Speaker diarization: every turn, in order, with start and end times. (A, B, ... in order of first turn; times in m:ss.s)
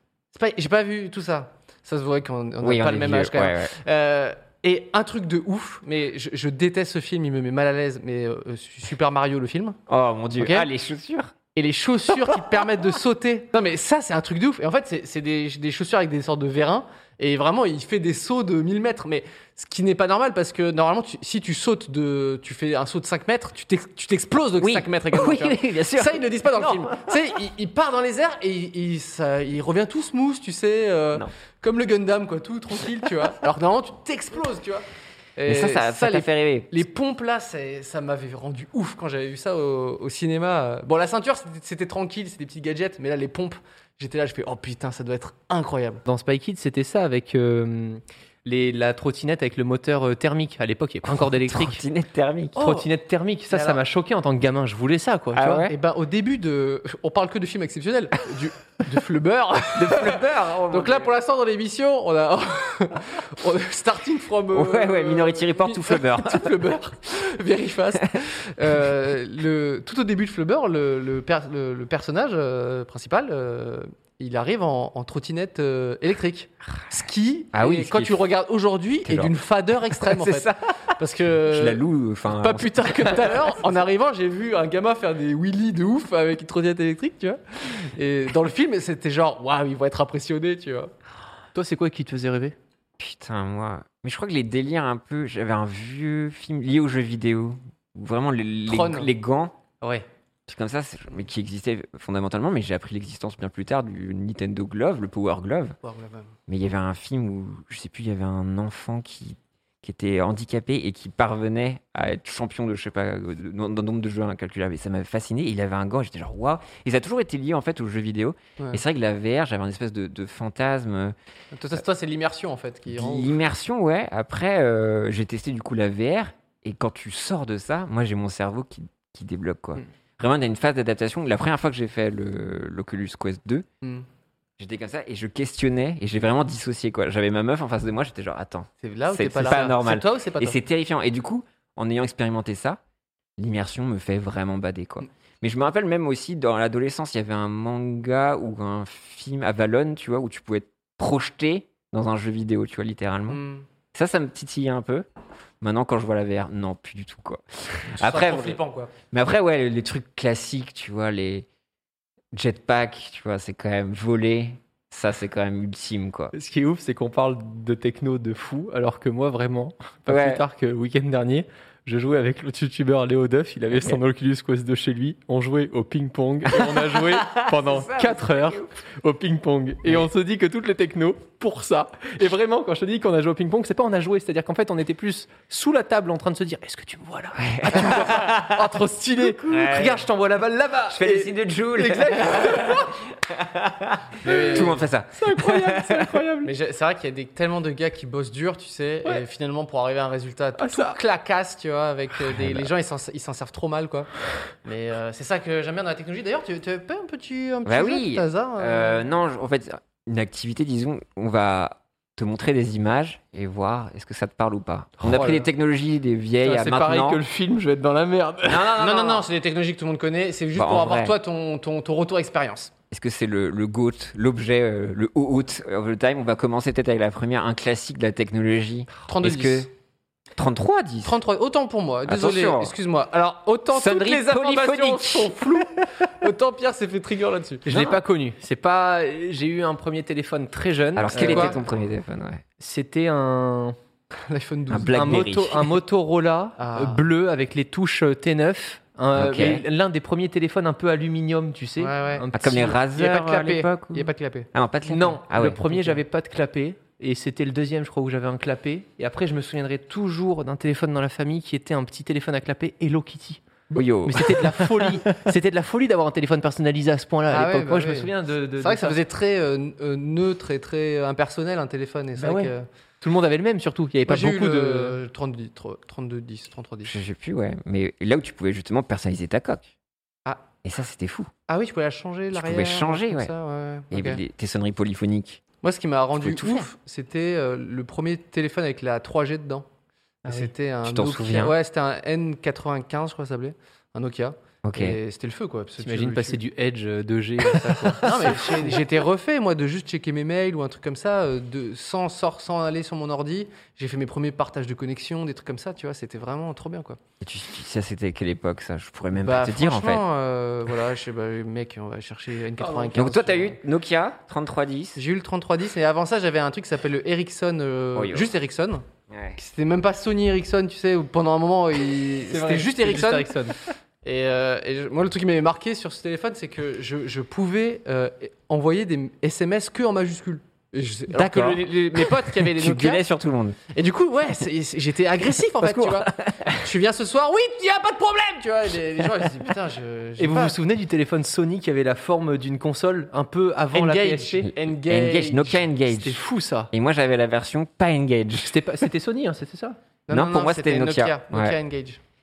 0:00.3-0:09.8 A
0:02.6-0:03.7 B
0:09.9-0:11.3 B
0:10.4-0:10.7 A
0:11.5-0:34.8 A
0:24.6-0:27.1 B
0:35.4-0:46.0 A
0:35.5-0:36.7 B
0:46.0-0:51.8 C
0:51.1-0:52.7 B
0:52.5-0:55.7 C
0:53.5-0:53.8 A
0:55.3-0:55.7 B
0:55.7-1:30.9 A
0:59.7-1:01.1 B
1:04.5-1:06.6 B
1:17.5-1:18.2 B
1:19.0-1:19.3 B
1:19.9-1:20.9 B
1:21.5-1:23.3 B
1:31.5-1:32.6 C
1:33.0-1:39.6 B
1:38.7-1:39.1 A
1:40.5-1:45.8 B
1:45.8-1:46.3 A
1:46.5-2:01.1 B
2:01.5-2:03.4 A
2:02.9-2:13.6 B
2:14.6-2:22.8 B
2:18.8-2:20.6 A
2:23.4-2:33.4 B
2:33.3-2:33.7 A
2:33.9-2:35.0 B
2:35.6-2:41.5 B
2:37.9-2:38.9 A
2:42.3-2:46.3 B
2:46.3-3:12.9 C
2:50.1-2:50.4 B
2:56.5-2:58.7 B
3:07.4-3:08.6 B
3:09.5-3:10.0 B
3:10.9-3:16.2 B
3:14.2-3:14.9 A
3:14.2-3:16.5 C
3:16.4-3:24.1 A
3:20.6-3:21.0 C
3:22.4-3:22.7 B
3:24.6-3:29.1 A
3:27.6-3:37.2 B
3:35.0-3:35.4 C
3:35.1-3:35.4 A
3:36.4-3:38.7 C
3:38.5-3:39.3 B
3:38.7-3:42.7 A
3:40.6-3:41.2 B
3:42.9-3:49.7 B
3:49.1-3:49.7 A
3:50.4-3:51.2 B
3:51.0-3:57.6 A
3:52.0-3:52.7 B
3:53.7-3:55.8 B
3:57.6-4:01.6 C
3:57.7-3:58.0 B
4:01.0-4:02.4 B
4:01.1-4:01.6 A
4:02.6-4:03.8 C
4:04.2-4:05.2 A
4:04.7-4:05.8 B
4:04.9-4:12.8 C
4:06.6-4:07.0 A
4:09.1-4:09.6 B
4:11.8-4:12.2 A
4:12.3-4:16.0 B
4:12.9-4:14.5 A
4:14.9-4:23.4 C
4:23.7-4:24.9 B
4:24.0-4:29.0 C
4:27.3-4:32.6 A
4:32.2-4:35.0 C
4:34.0-4:36.9 A
4:36.8-4:39.7 B
4:40.6-4:41.3 B
4:41.5-4:44.2 A
4:42.3-4:43.3 B
4:43.9-4:45.4 B
4:45.6-4:49.7 A
4:46.2-4:46.7 B
4:50.2-4:56.4 A
4:50.8-4:51.5 B
4:54.6-4:55.0 B
4:55.8-4:58.8 C
4:57.4-5:07.0 A
5:07.2-5:10.0 B
5:09.2-5:13.6 A
5:12.6-5:12.9 C
5:12.9-5:15.0 B
5:15.0-5:18.8 A
5:17.9-5:18.3 B
5:19.1-5:19.4 B
5:19.4-5:23.5 A
5:22.3-5:23.6 C
5:24.0-5:33.0 A
5:31.1-5:33.6 B
5:33.7-5:40.6 A
5:35.6-5:36.6 B
5:40.2-5:44.5 C
5:43.7-5:45.6 A
5:44.4-5:48.5 B
5:45.9-5:46.7 C
5:48.4-5:49.8 C
5:50.1-5:52.0 A
5:50.1-5:51.6 B